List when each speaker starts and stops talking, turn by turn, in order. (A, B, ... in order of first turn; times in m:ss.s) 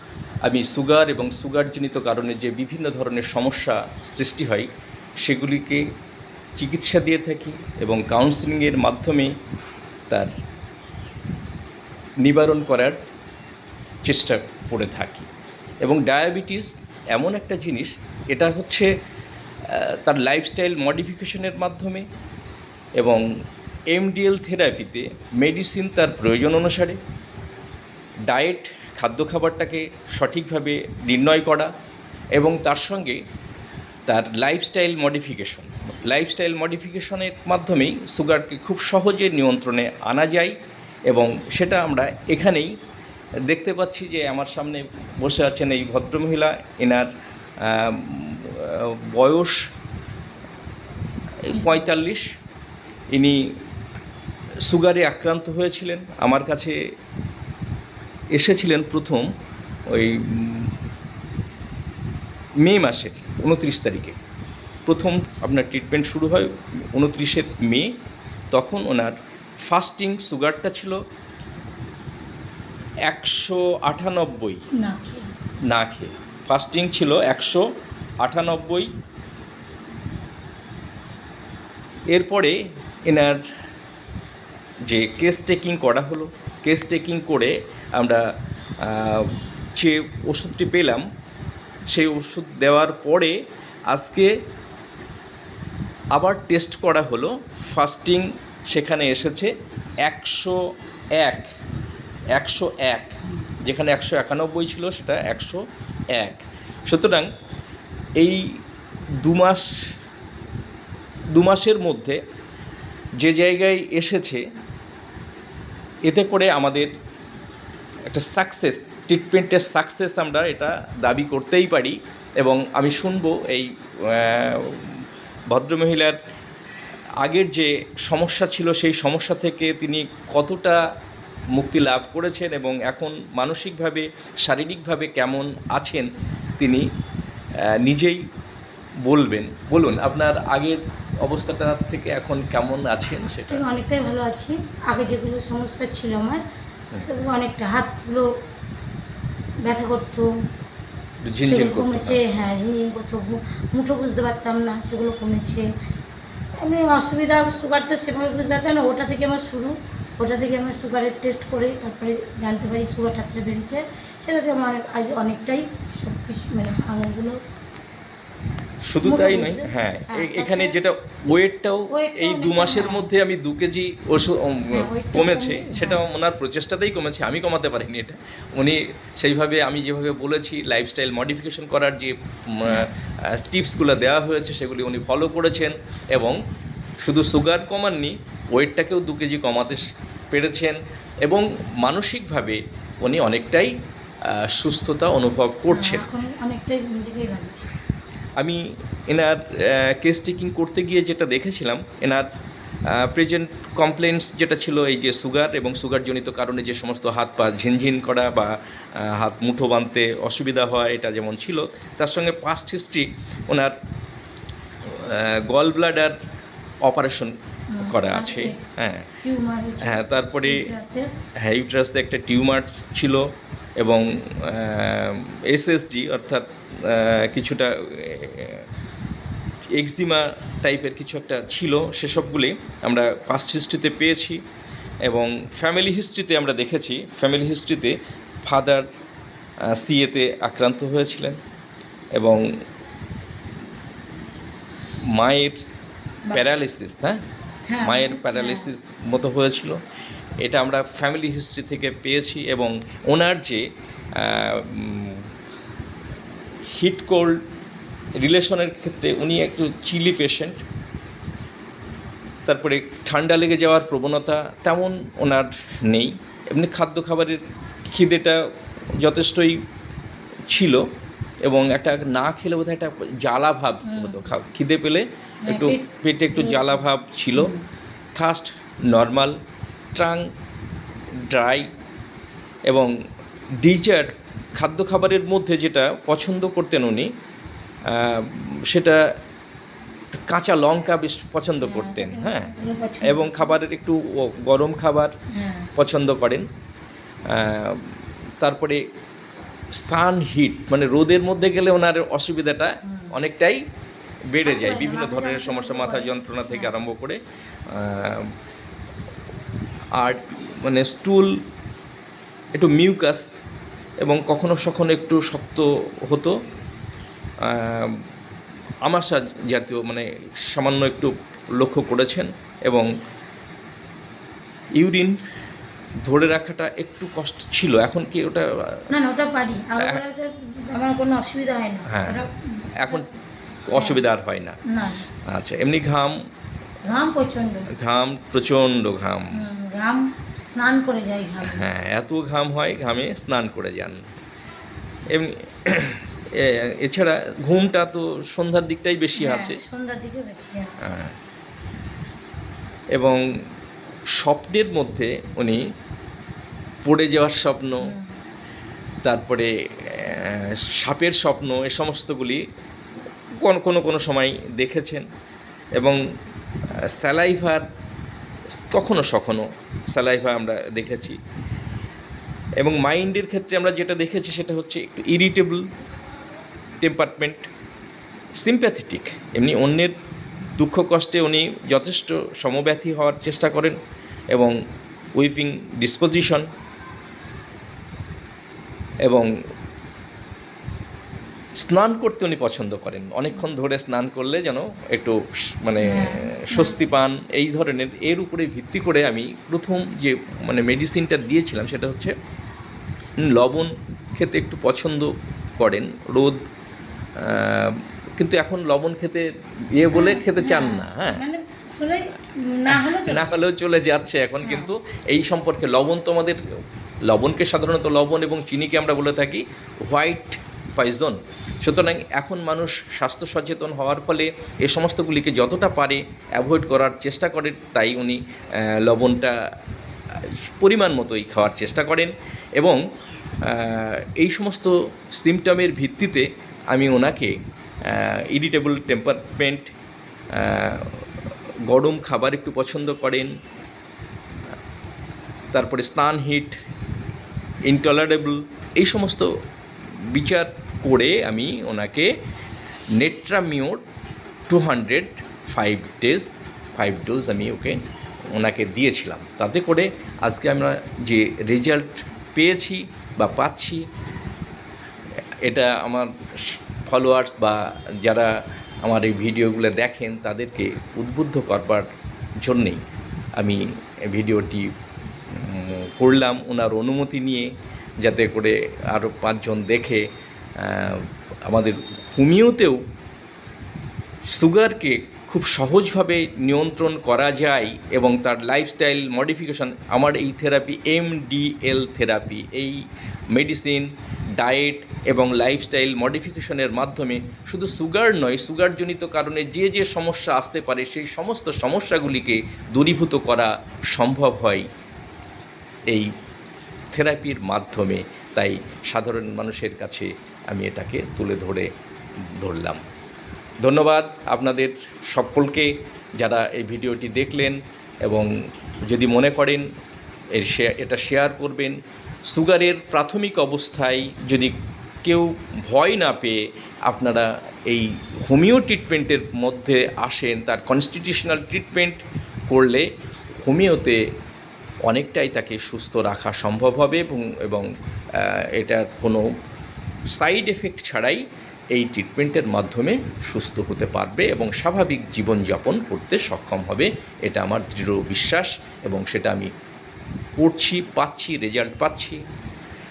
0:00.4-0:04.7 A
0:05.2-0:05.8 A
0:06.6-0:09.3 A
0:12.2-0:13.0 A
0:14.0-0:15.3 A
0:15.8-0:18.9 A
0:19.7-0:22.1 A
0:23.0-0:23.2 A
0:23.9-0:27.0 A
0:28.3-0:31.7 A
0:32.4-0:33.2 A
0:34.1-0:40.5 A
0:41.1-0:42.7 A
0:43.5-0:47.1 A
0:47.6-0:49.6 A
0:51.5-0:52.2 A
0:53.1-0:53.4 A
0:54.7-0:56.8 A
0:58.3-0:59.3 A
0:59.9-1:00.7 A
1:02.6-1:04.2 A
1:04.9-1:08.0 A
1:08.5-1:11.0 A
1:13.1-1:14.6 A
1:14.7-1:15.3 B
1:15.7-1:17.7 A
1:18.2-1:18.9 A
1:22.1-1:23.4 A
1:24.9-1:28.2 A
1:28.8-1:31.0 A
1:31.9-1:34.3 A
1:36.1-1:39.5 A
1:40.0-1:40.6 A
1:41.2-1:41.5 A
1:42.3-1:45.6 A
1:46.2-1:47.3 A
1:48.2-1:48.4 A
1:49.2-1:49.7 A
1:51.4-1:52.2 A
1:53.2-1:54.4 A
1:56.1-1:56.9 A
1:58.1-2:04.9 A
2:05.5-2:06.2 A
2:07.2-2:10.8 A
2:11.6-2:16.1 A
2:16.6-2:16.8 A
2:17.7-2:18.2 A
2:19.1-2:23.6 A
2:23.5-2:26.4 B
2:27.0-2:28.3 B
2:29.6-2:30.3 B
2:31.2-2:32.2 A
2:31.4-2:35.6 B
2:36.6-2:47.4 B
2:48.9-3:06.4 A
2:49.0-2:50.8 B
2:51.9-2:53.1 B
2:54.7-2:56.0 B
3:07.0-3:13.7 A
3:14.3-3:16.0 A
3:15.7-3:17.7 B
3:18.4-3:22.3 A
3:22.9-3:33.8 A
3:34.8-3:36.2 A
3:36.8-3:39.1 A
3:37.7-3:38.6 B
3:39.2-3:41.1 B
3:39.8-3:40.6 A
3:41.4-3:43.3 A
3:43.8-3:48.7 A
3:49.8-3:54.4 A
3:55.1-3:58.8 A
3:59.6-4:01.4 A
4:02.2-4:02.4 A
4:05.1-4:05.6 A
4:06.3-4:07.2 A
4:07.7-4:08.7 B
4:07.8-4:09.8 A
4:10.4-4:13.6 A
4:14.2-4:15.3 A
4:16.7-4:17.4 A
4:18.2-4:20.6 A
4:22.5-4:28.4 A
4:29.0-4:29.6 A
4:30.5-4:30.8 A
4:31.4-4:37.5 A
4:33.9-4:34.2 B
4:35.5-4:36.8 B
4:37.4-4:37.6 B
4:38.2-4:39.4 A
4:40.0-4:40.3 A
4:41.3-4:41.7 A
4:43.6-4:47.1 A
4:47.9-4:49.0 A
4:50.1-4:55.1 A
4:51.6-4:53.6 B
4:55.3-4:55.7 B
4:55.8-4:56.5 A
4:57.3-4:58.8 A
4:59.8-5:03.6 A
5:02.9-5:03.1 B
5:04.3-5:08.3 A
5:04.4-5:06.8 B
5:10.0-5:11.3 A
5:12.6-5:13.2 A
5:14.0-5:16.4 A
5:17.4-5:18.0 A
5:18.8-5:22.9 A
5:24.8-5:25.2 A
5:26.1-5:28.9 A
5:28.9-5:33.0 B
5:31.9-5:32.2 A
5:32.8-5:33.1 A
5:33.7-5:34.6 A
5:33.7-5:34.0 B
5:34.7-5:35.1 B
5:35.3-5:36.2 A
5:36.8-5:37.7 B
5:37.7-5:39.4 A
5:39.3-5:41.7 B
5:41.4-5:44.0 A
5:45.1-5:49.6 A
5:49.2-5:50.8 B
5:50.8-5:51.1 A
5:53.0-5:53.2 A
5:54.1-5:55.6 A
5:56.8-5:57.9 A
5:57.8-5:58.1 B
5:59.0-6:02.4 A
6:03.3-6:05.1 A
6:06.9-6:07.6 A
6:08.7-6:11.2 A
6:12.6-6:15.6 A
6:16.8-6:17.5 A
6:18.4-6:20.0 A
6:20.6-6:23.8 A
6:25.2-6:26.5 A
6:31.6-6:42.1 A
6:35.8-6:36.8 B
6:43.2-6:46.4 A
6:47.2-6:51.2 A
6:49.9-6:53.3 B
6:52.7-6:56.4 A
6:54.4-6:54.7 B
6:57.1-7:09.4 A
7:10.5-7:12.8 A
7:13.5-7:17.3 A
7:17.9-7:19.7 A
7:20.4-7:21.0 A
7:21.7-7:23.3 A
7:25.5-7:26.6 A
7:27.7-7:29.3 A
7:30.0-7:32.1 A
7:33.0-7:33.8 A
7:34.5-7:37.8 A
7:38.3-7:43.9 A
7:45.4-7:48.3 A
7:48.8-7:51.9 A
7:52.4-7:52.8 A
7:53.4-7:54.7 A
7:55.3-7:57.5 A
7:58.0-8:00.1 A
8:00.6-8:02.8 A
8:04.3-8:24.7 A
8:26.9-8:31.7 A
8:32.4-8:32.8 A
8:33.6-8:38.3 A
8:38.8-8:39.7 A
8:40.3-8:52.9 A
8:53.4-8:54.0 A
8:54.9-8:59.2 A
9:00.1-9:09.5 A
9:10.4-9:12.2 A